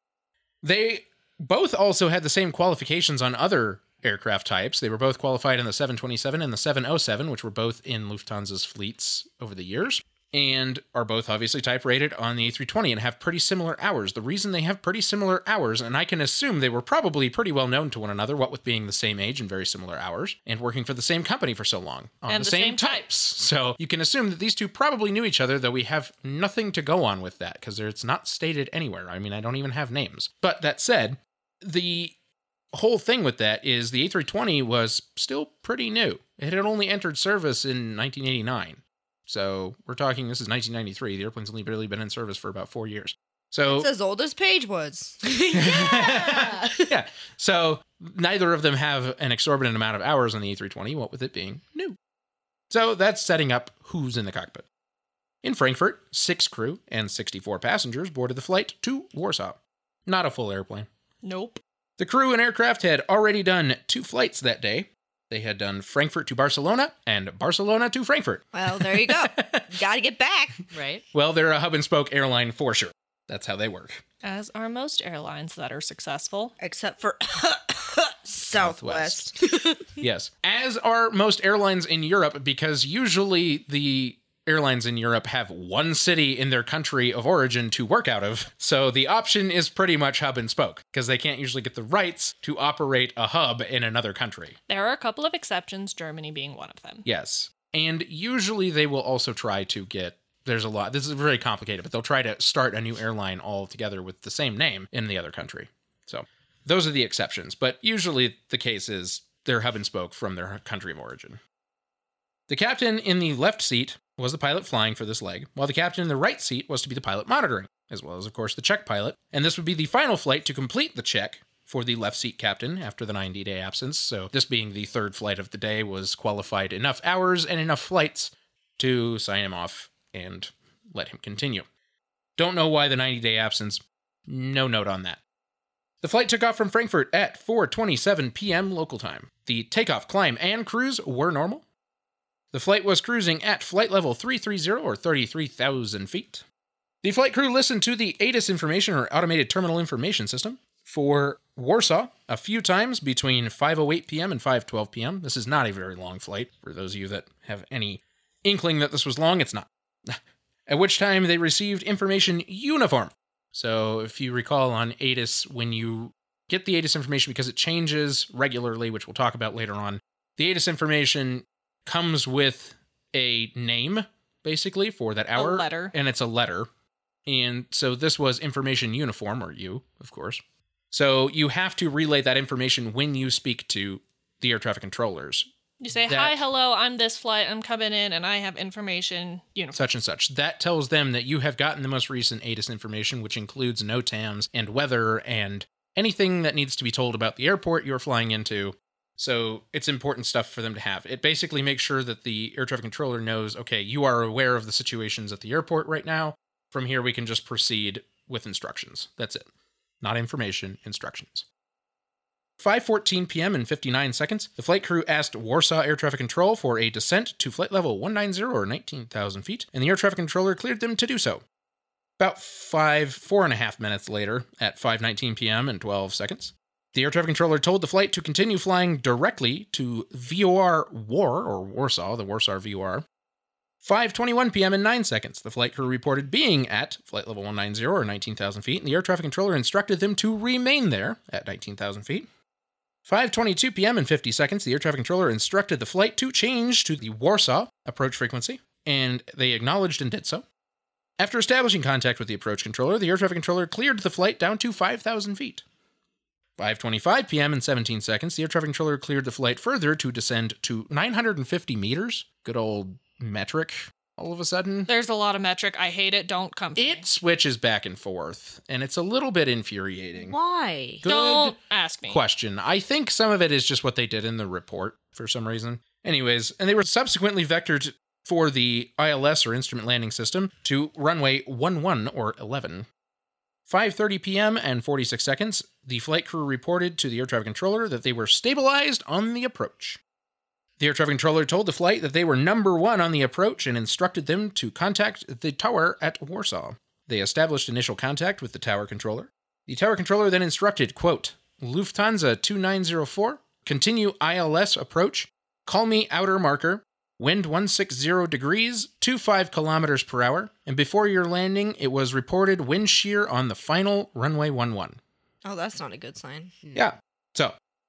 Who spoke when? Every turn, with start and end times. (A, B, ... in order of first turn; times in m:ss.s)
0:00.6-0:32.1 A
0:22.3-0:23.0 B
0:32.7-0:43.9 A
0:43.7-0:45.2 C
0:45.2-0:46.8 D
0:45.5-0:52.0 A
0:52.7-0:54.6 A
0:55.4-1:00.9 A
1:01.2-1:01.6 B
1:02.0-1:09.7 A
1:08.5-1:10.6 C
1:10.7-1:11.0 D
1:11.1-1:14.0 A
1:14.2-1:16.5 B
1:16.6-1:19.3 C
1:18.5-1:19.3 A
1:20.0-1:34.6 A
1:34.7-1:37.0 B
1:37.0-1:51.4 A
1:52.5-2:11.6 A
2:12.4-2:15.2 A
2:16.0-2:21.6 A
2:22.5-2:26.4 A
2:27.0-2:56.7 A
2:55.4-2:55.9 B
2:57.2-3:00.4 A
3:00.9-3:05.5 A
3:05.8-3:09.8 B
3:06.1-3:06.4 A
3:09.7-3:29.5 A
3:30.0-3:31.4 A
3:32.6-3:41.4 A
3:42.2-3:53.0 A
3:53.8-4:02.3 A
4:03.0-4:10.4 A
4:11.2-4:15.6 A
4:16.6-4:24.9 A
4:24.9-4:27.0 B
4:26.8-4:30.4 A
4:30.2-4:31.0 C
4:31.0-4:31.6 A
4:31.0-4:32.2 B
4:32.1-4:42.9 A
4:43.7-4:50.0 A
4:50.8-5:15.0 A
5:15.4-5:16.5 C
5:16.7-5:17.6 A